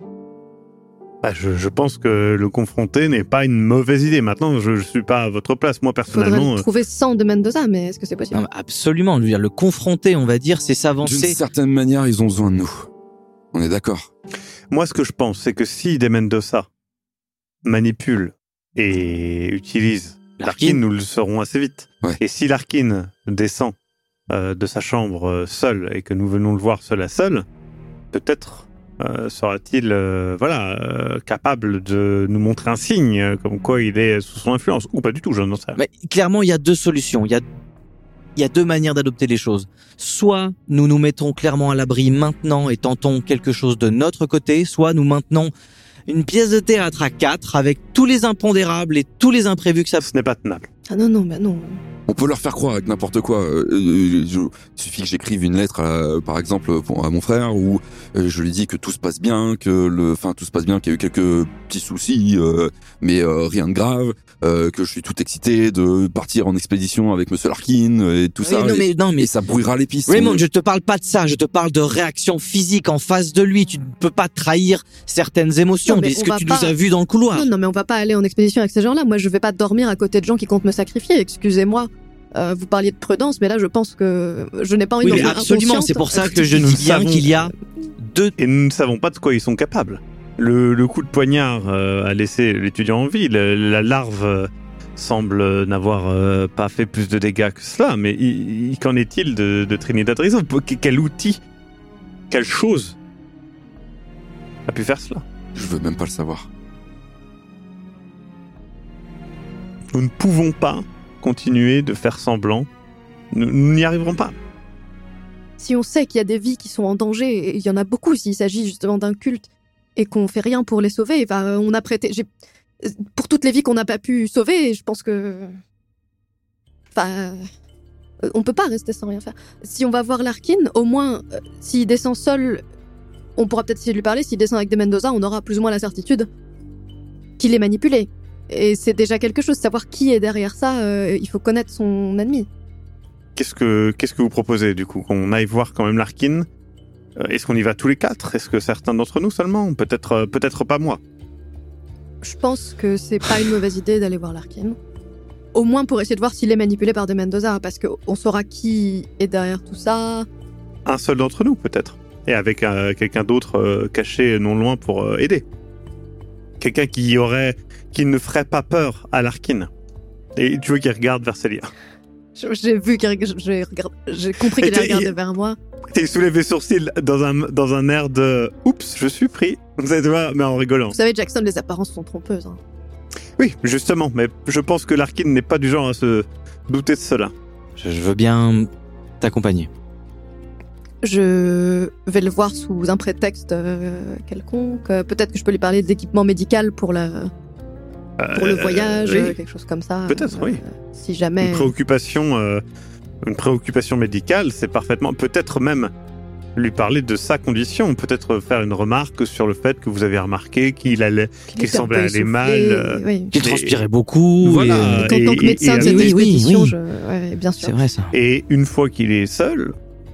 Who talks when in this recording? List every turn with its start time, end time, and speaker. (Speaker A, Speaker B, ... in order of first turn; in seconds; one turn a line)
Speaker A: 1.2-6.7
Speaker B: 6.1-8.4
Speaker C: 8.3-11.4
Speaker D: 11.0-12.9
Speaker D: 13.5-14.1
Speaker A: 14.7-16.7
Speaker A: 17.6-23.7
Speaker C: 20.4-20.8
Speaker A: 24.3-27.4
Speaker A: 28.1-35.8
Speaker C: 35.8-37.4
Speaker C: 38.4-45.5
Speaker C: 46.1-50.0
Speaker A: 50.0-50.7
Speaker B: 50.9-51.8
Speaker D: 52.1-70.4
Speaker C: 68.4-69.3
Speaker C: 70.1-77.5
Speaker B: 75.9-76.8
Speaker B: 77.3-86.5
Speaker C: 85.0-88.3
Speaker A: 85.1-85.4
Speaker A: 86.4-87.3
Speaker A: 88.4-101.4
Speaker A: 102.3-103.0
Speaker A: 104.7-105.2
Speaker D: 105.5-106.5
Speaker A: 109.9-112.7
Speaker A: 113.3-114.3
Speaker B: 115.6-122.3
Speaker B: 122.8-125.5
Speaker B: 126.9-127.4
Speaker B: 128.2-132.6
Speaker B: 133.4-136.3
Speaker B: 137.4-142.5
Speaker A: 143.3-146.5
Speaker A: 147.2-151.0
Speaker B: 152.2-154.8
Speaker B: 155.5-160.3
Speaker A: 160.8-165.4
Speaker A: 166.6-169.7
Speaker A: 170.3-171.7
Speaker B: 172.3-175.6
Speaker A: 174.5-175.1
Speaker A: 175.9-181.0
Speaker B: 180.9-182.6
Speaker A: 183.4-187.3
Speaker C: 187.8-188.7
Speaker C: 189.2-189.7
Speaker B: 191.0-197.3
Speaker A: 198.2-199.3
Speaker B: 198.3-201.7
Speaker A: 200.1-200.6
Speaker A: 201.4-202.6
Speaker A: 203.2-205.9
Speaker A: 206.6-213.9
Speaker B: 211.5-213.3
Speaker C: 213.3-215.2
Speaker A: 214.4-216.1
Speaker B: 215.0-217.8
Speaker C: 215.8-216.7
Speaker C: 217.6-218.1
Speaker A: 218.1-219.7